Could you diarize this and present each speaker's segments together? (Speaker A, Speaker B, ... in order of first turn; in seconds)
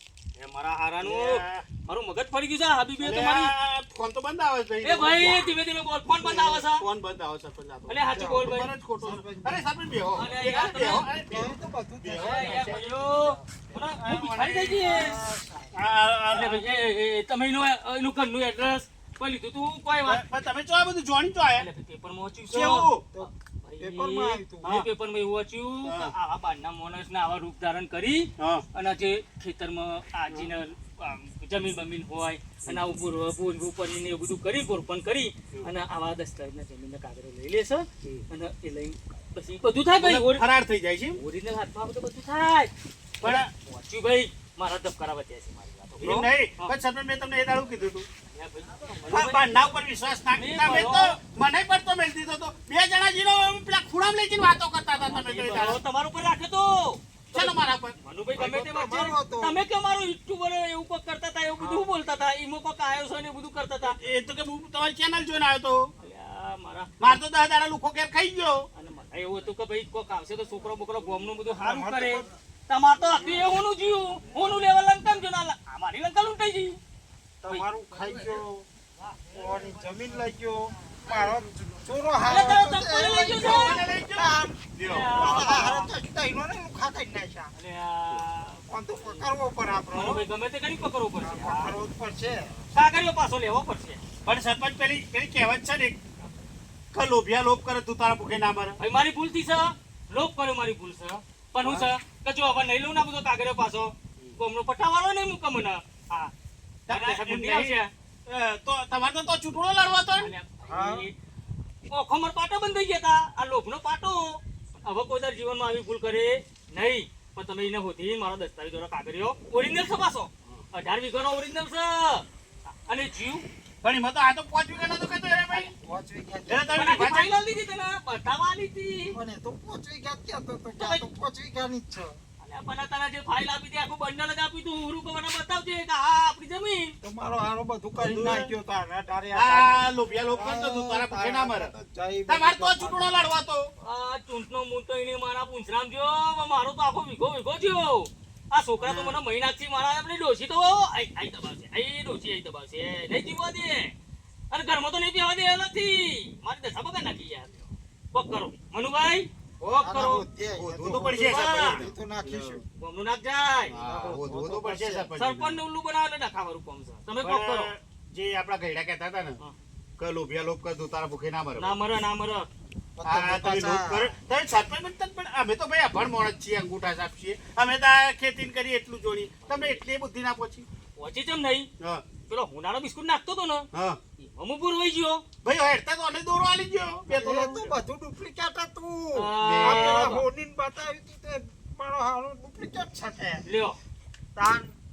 Speaker A: 0.3-3.5, 4.8-6.8, 7.9-8.7, 10.1-11.1, 12.2-15.2, 16.3-20.2, 21.6-40.5, 41.1-42.7, 43.2-46.7, 48.3-49.6, 50.3-51.2, 55.1-64.0, 66.0-67.2, 68.7-76.8, 82.2-83.8, 84.8-85.9, 87.5-89.3, 89.9-91.7, 92.7-94.0, 98.8-106.3, 106.9-107.9, 110.2-111.1, 111.9-122.2, 122.8-123.4, 126.8-129.2, 130.8-131.0, 132.4-136.9, 143.8-153.9, 154.5-160.2, 161.1-161.8, 162.8-163.7, 165.2-167.7, 171.6-172.5, 179.4-179.8, 181.0-181.7, 182.3-183.7, 184.2-185.2, 187.1-187.4, 189.1-190.2, 193.4-193.8
Speaker B: 1.0-1.7, 3.0-5.5, 6.2-12.8, 14.0-15.0, 15.7-16.7, 20.0-21.7, 22.5-23.0, 25.8-26.1, 28.4-28.6, 40.0-41.2, 43.2-43.5, 46.0-48.1, 49.1-55.8, 57.3-57.9, 63.8-65.9, 67.0-68.7, 83.3-85.2, 94.2-96.0, 96.9-98.8, 106.9-110.3, 123.8-125.7, 126.5-127.3, 138.0-138.5, 139.3-141.7, 142.3-143.7, 148.8-149.2, 160.5-162.6, 163.7-165.6, 167.2-169.4, 170.0-171.8, 173.0-180.7, 183.7-184.0, 185.4-187.8, 189.4-190.2
Speaker C: 8.1-9.7, 11.2-13.9, 14.8-15.7, 23.1-24.8, 58.4-59.5, 71.6-72.3, 77.4-78.7, 79.3-87.5, 88.7-90.2, 91.2-92.5, 110.6-111.0, 125.6-127.0, 129.1-132.2, 137.0-143.2, 159.8-162.6, 163.7-165.1, 173.0-174.1, 187.1-193.4, 194.3-194.8